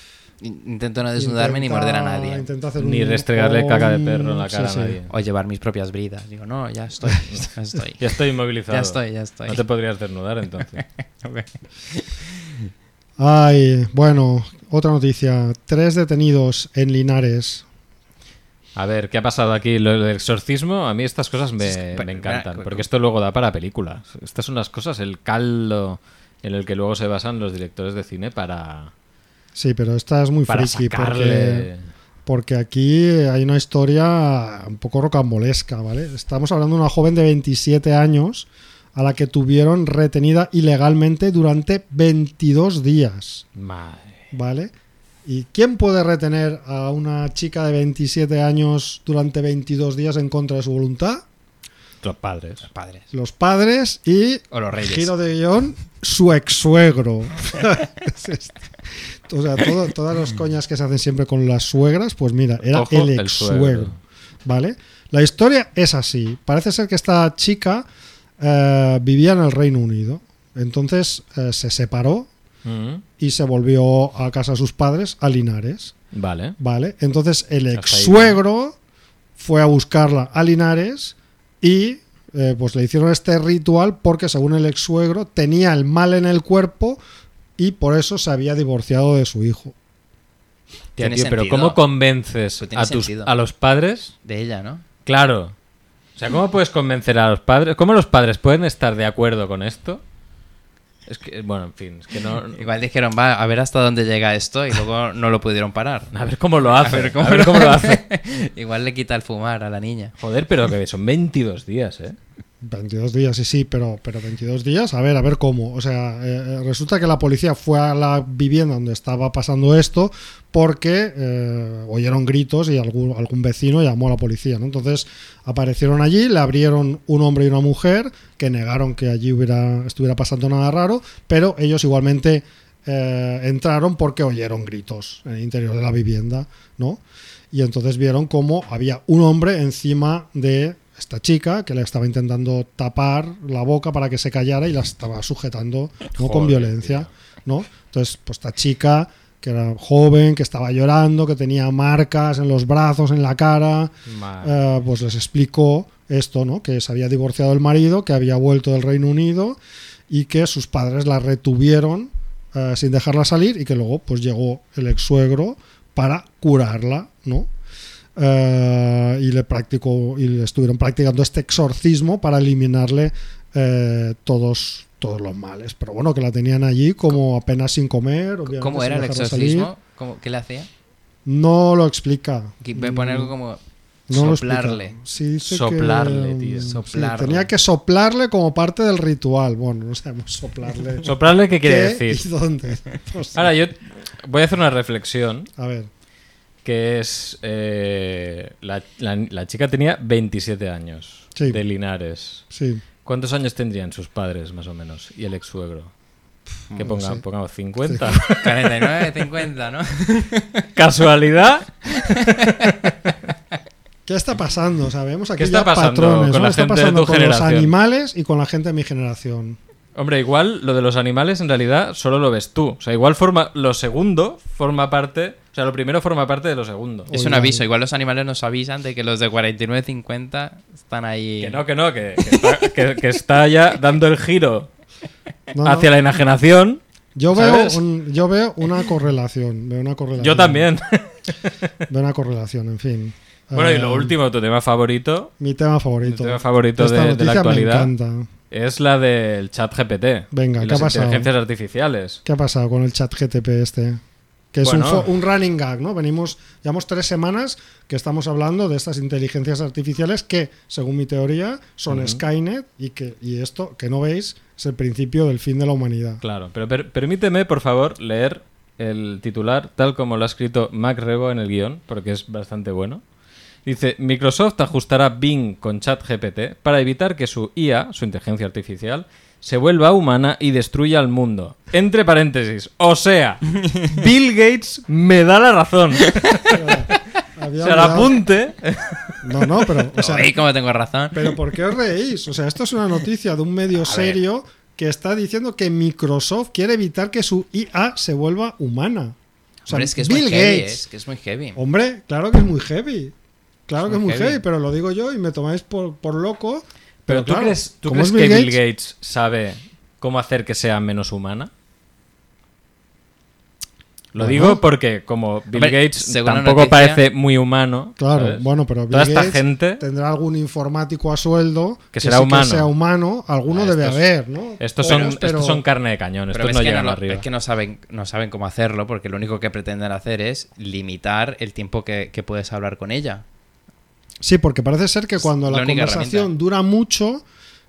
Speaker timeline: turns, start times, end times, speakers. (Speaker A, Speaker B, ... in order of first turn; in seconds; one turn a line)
Speaker A: 0.4-2.5
Speaker B: 1.1-5.0
Speaker C: 2.8-5.1
Speaker A: 5.1-8.0
Speaker C: 7.3-10.8
Speaker A: 8.7-9.6
Speaker A: 10.8-12.3
Speaker B: 13.2-17.6
Speaker C: 18.8-28.9
Speaker A: 21.6-22.9
Speaker B: 29.6-31.7
Speaker C: 30.5-31.8
Speaker B: 32.3-43.5
Speaker C: 43.6-44.2
Speaker B: 44.3-44.7
Speaker B: 45.3-51.2
Speaker C: 52.0-52.7
Speaker A: 52.7-53.0
Speaker B: 53.1-58.5
Speaker A: 54.5-55.1
Speaker B: 59.3-67.8
Speaker C: 62.7-64.0
Speaker B: 68.4-72.3
Speaker C: 72.6-73.0
Speaker B: 73.2-75.9
Speaker C: 76.1-76.6
Speaker B: 76.6-78.8
Speaker C: 77.7-78.4
Speaker B: 79.4-87.0
Speaker B: 87.6-89.7
Speaker A: 91.0-91.8
Speaker C: 91.0-94.1
Speaker A: 92.6-93.3
Speaker A: 94.2-94.8
Speaker C: 95.1-95.5
Speaker C: 96.2-100.0
Speaker C: 101.1-102.6
Speaker A: 102.5-106.1
Speaker C: 106.1-108.0
Speaker A: 106.7-110.1
Speaker C: 110.2-112.2
Speaker B: 112.6-137.0
Speaker B: 137.5-159.6
Speaker C: 146.2-147.1
Speaker C: 154.1-154.5
Speaker B: 160.1-167.5
Speaker B: 168.2-179.7
Speaker A: 178.5-180.7
Speaker B: 181.3-183.3
Speaker A: 182.6-183.6
Speaker B: 184.1-193.5
Speaker A: 184.1-185.0
Speaker C: 185.4-186.8
Speaker A: 186.7-187.5
Speaker C: 191.0-192.2
Speaker C: 193.3-195.5
Speaker B: 195.6-195.9
Speaker C: 196.6-202.4
Speaker B: 202.5-202.8
Speaker C: 203.1-205.9
Speaker B: 206.7-207.2
Speaker C: 206.8-208.4
Speaker B: 207.8-208.4
Speaker A: 208.4-210.6
Speaker C: 210.8-213.1
Speaker A: 212.2-212.5
Speaker B: 214.1-219.6
Speaker C: 215.4-217.7
Speaker C: 220.0-227.1
Speaker A: 227.1-231.6
Speaker B: 227.1-227.6
Speaker C: 231.4-234.7
Speaker A: 232.2-232.6
Speaker B: 235.5-235.9
Speaker C: 235.6-236.8
Speaker B: 237.2-240.7
Speaker C: 237.3-237.8
Speaker C: 240.2-241.3
Speaker B: 241.9-244.1
Speaker C: 243.5-245.3
Speaker B: 245.4-248.3
Speaker C: 246.0-247.9
Speaker C: 248.5-252.2
Speaker B: 250.3-251.3
Speaker B: 252.2-254.0
Speaker B: 254.5-266.2
Speaker C: 254.6-255.1
Speaker C: 261.9-262.2
Speaker C: 266.2-273.0
Speaker C: 273.6-286.4
Speaker B: 286.5-288.1
Speaker C: 287.6-289.2
Speaker B: 289.2-290.3
Speaker A: 289.9-291.3
Speaker B: 291.1-299.1
Speaker A: 293.8-294.2
Speaker A: 299.6-301.6
Speaker B: 299.7-300.8
Speaker B: 301.6-303.1
Speaker B: 303.7-308.6
Speaker A: 303.8-304.4
Speaker C: 307.1-311.5
Speaker C: 314.1-319.8
Speaker B: 314.2-314.6
Speaker A: 315.5-317.0
Speaker B: 318.0-325.6
Speaker C: 321.9-322.7
Speaker C: 323.5-324.0
Speaker C: 324.6-327.2
Speaker A: 326.3-333.2
Speaker B: 334.2-337.2
Speaker A: 335.2-336.3